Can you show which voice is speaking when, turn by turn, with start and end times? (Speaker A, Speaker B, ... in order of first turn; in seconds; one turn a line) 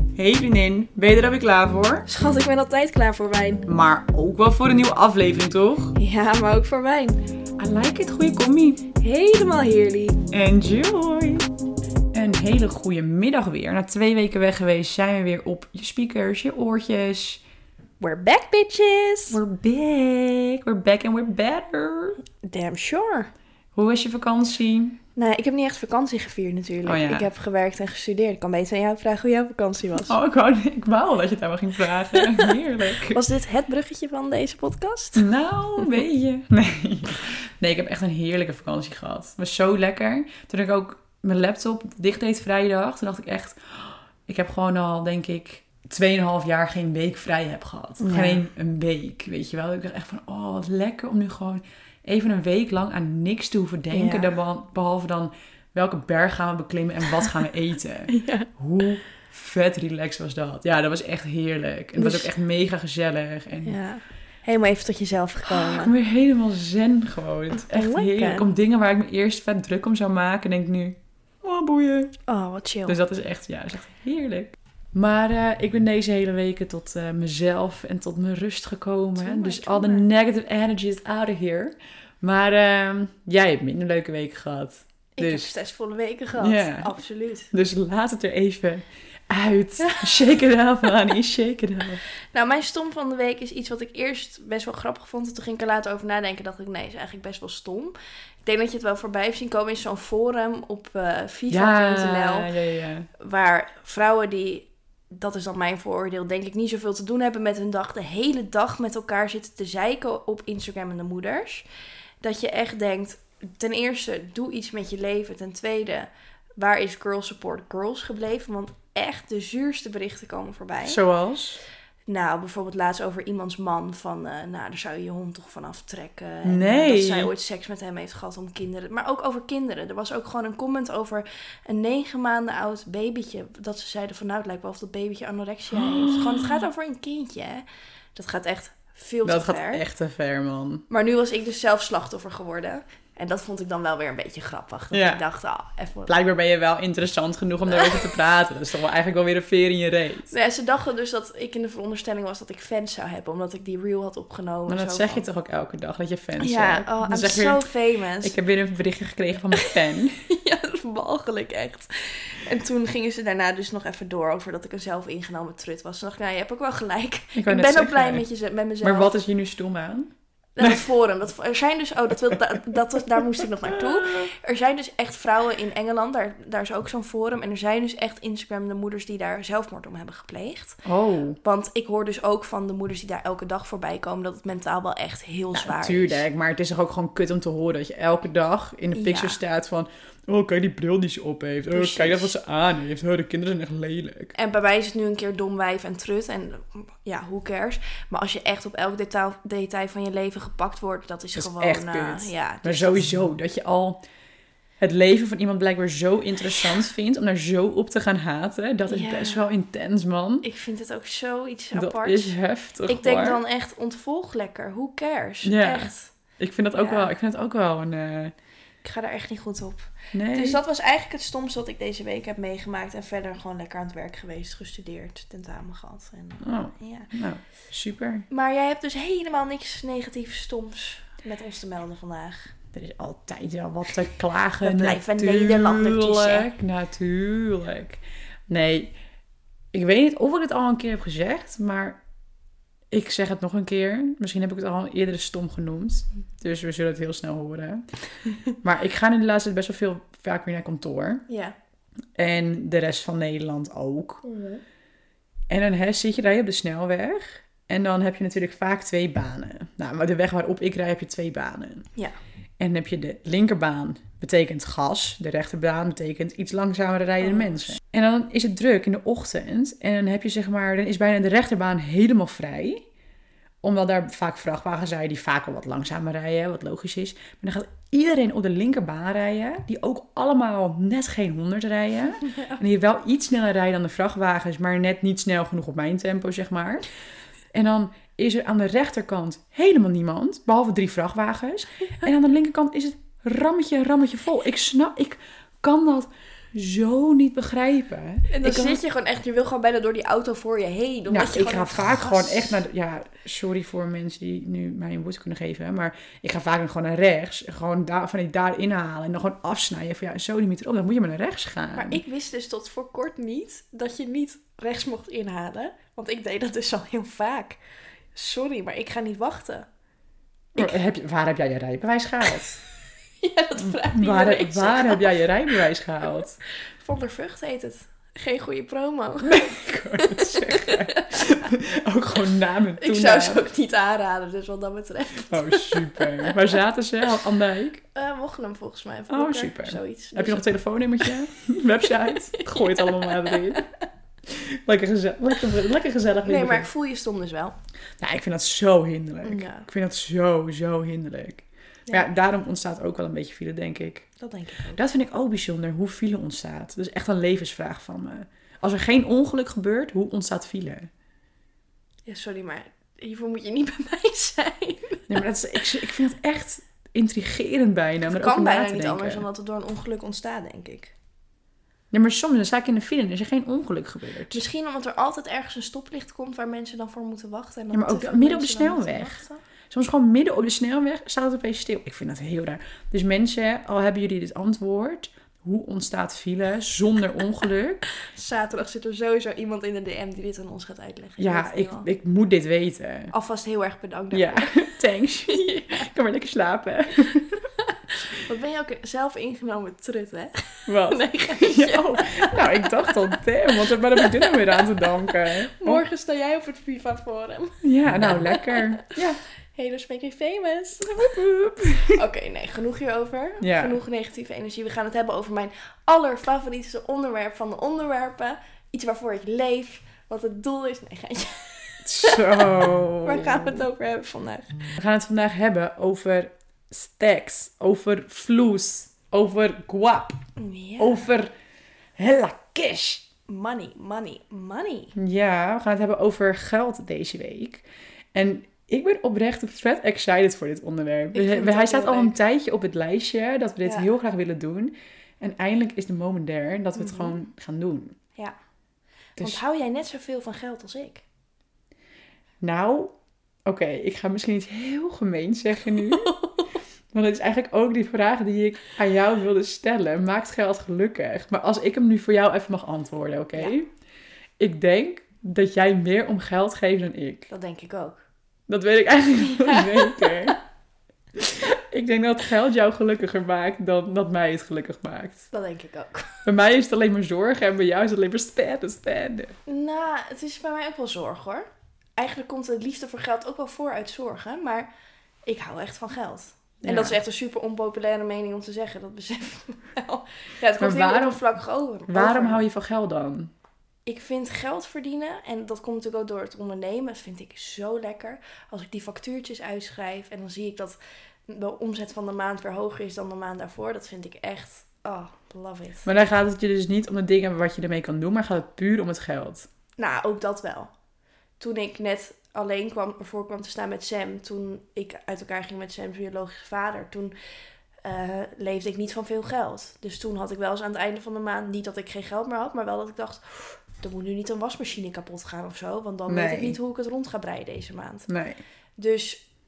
Speaker A: 0.2-2.1
Speaker B: 2.1-3.7
Speaker A: 3.7-6.0
Speaker B: 6.0-7.2
Speaker A: 7.6-8.9
Speaker B: 8.9-10.2
Speaker A: 10.3-11.5
Speaker A: 12.1-17.4
Speaker B: 18.0-19.4
Speaker A: 19.3-22.2
Speaker B: 22.4-23.3
Speaker A: 23.8-25.0
Speaker B: 25.2-30.2
Speaker A: 26.9-27.3
Speaker A: 30.0-33.2
Speaker B: 33.0-35.3
Speaker A: 35.2-63.8
Speaker B: 48.0-48.4
Speaker B: 53.9-54.4
Speaker B: 58.1-58.5
Speaker B: 62.0-62.3
Speaker B: 63.6-65.9
Speaker A: 65.5-72.1
Speaker B: 67.5-68.5
Speaker B: 72.3-73.0
Speaker A: 72.9-85.5
Speaker B: 79.2-80.1
Speaker B: 85.2-87.5
Speaker A: 86.4-86.9
Speaker A: 87.5-92.0
Speaker B: 89.8-90.3
Speaker B: 92.3-102.5
Speaker A: 101.5-103.1
Speaker B: 103.2-111.7
Speaker B: 112.2-121.0
Speaker A: 120.8-121.6
Speaker B: 122.1-139.8
Speaker A: 126.5-127.3
Speaker A: 135.7-136.6
Speaker A: 139.2-140.8
Speaker B: 140.9-146.1
Speaker A: 144.9-145.2
Speaker A: 146.1-150.3
Speaker B: 147.8-148.1
Speaker B: 150.3-155.2
Speaker A: 154.7-157.7
Speaker B: 156.4-158.3
Speaker A: 158.2-160.3
Speaker B: 159.6-169.1
Speaker A: 167.3-168.2
Speaker A: 168.8-170.9
Speaker B: 170.6-180.8
Speaker A: 173.4-174.3
Speaker A: 180.8-181.4
Speaker B: 181.4-186.3
Speaker A: 185.5-194.3
Speaker B: 188.9-189.4
Speaker B: 191.7-192.3
Speaker B: 194.3-203.1
Speaker A: 201.4-204.0
Speaker A: 204.8-210.5
Speaker B: 208.9-209.4
Speaker B: 210.4-212.4
Speaker A: 211.8-213.4
Speaker B: 212.9-216.1
Speaker A: 215.4-218.3
Speaker B: 216.7-217.1
Speaker B: 218.8-227.1
Speaker A: 220.1-220.6
Speaker A: 226.4-228.3
Speaker B: 228.3-232.5
Speaker A: 232.7-238.9
Speaker B: 234.6-236.5
Speaker A: 239.7-242.0
Speaker A: 242.9-247.8
Speaker A: 248.6-251.2
Speaker B: 251.3-251.6
Speaker A: 252.2-254.2
Speaker B: 254.2-254.6
Speaker A: 255.5-261.9
Speaker A: 262.6-272.9
Speaker B: 267.2-267.7
Speaker A: 273.6-286.9
Speaker B: 282.3-282.6
Speaker A: 287.5-298.8
Speaker B: 298.3-302.6
Speaker A: 301.1-312.0
Speaker B: 311.8-317.6
Speaker B: 318.1-319.7
Speaker A: 320.6-322.6
Speaker B: 323.2-325.3
Speaker A: 323.6-326.4
Speaker B: 326.8-331.5
Speaker A: 329.2-333.4
Speaker B: 332.8-336.6
Speaker A: 335.2-337.8
Speaker B: 337.9-341.1
Speaker A: 339.1-343.7
Speaker B: 341.9-343.6
Speaker A: 344.3-346.7
Speaker B: 346.2-347.6
Speaker A: 348.0-354.1
Speaker B: 349.2-349.7
Speaker B: 354.2-354.8
Speaker A: 354.8-360.9
Speaker B: 362.1-365.2
Speaker A: 365.1-369.2
Speaker B: 368.1-370.9
Speaker A: 371.9-374.4
Speaker B: 374.3-379.4
Speaker A: 377.7-379.2
Speaker A: 379.7-387.8
Speaker B: 388.0-391.9
Speaker A: 391.2-393.1
Speaker B: 393.1-395.8
Speaker A: 394.1-397.4
Speaker B: 397.6-409.0
Speaker A: 400.7-405.8
Speaker A: 407.6-409.2
Speaker B: 409.5-411.2
Speaker A: 410.9-412.0
Speaker B: 411.8-424.6
Speaker A: 413.4-413.8
Speaker A: 421.9-423.6
Speaker A: 424.8-430.2
Speaker B: 430.4-431.1
Speaker A: 430.8-431.3
Speaker A: 432.0-433.1
Speaker B: 433.3-434.9
Speaker A: 435.0-448.0
Speaker B: 441.1-442.2
Speaker B: 446.8-447.2
Speaker B: 449.2-451.0
Speaker A: 452.4-452.9
Speaker A: 453.5-456.1
Speaker B: 455.9-456.5
Speaker A: 456.9-463.7
Speaker A: 464.4-467.3
Speaker B: 467.3-468.0
Speaker A: 468.5-470.4
Speaker B: 469.3-470.3
Speaker A: 471.1-475.3
Speaker B: 475.3-476.3
Speaker A: 476.2-479.4
Speaker B: 479.5-484.7
Speaker B: 485.3-492.4
Speaker A: 486.6-487.0
Speaker A: 490.6-491.2
Speaker A: 491.9-493.3
Speaker B: 493.9-500.8
Speaker B: 501.3-505.9
Speaker A: 505.9-509.5
Speaker B: 509.8-510.7
Speaker B: 511.4-517.1
Speaker B: 517.8-528.1
Speaker A: 526.1-526.6
Speaker A: 528.1-528.4
Speaker B: 528.8-529.2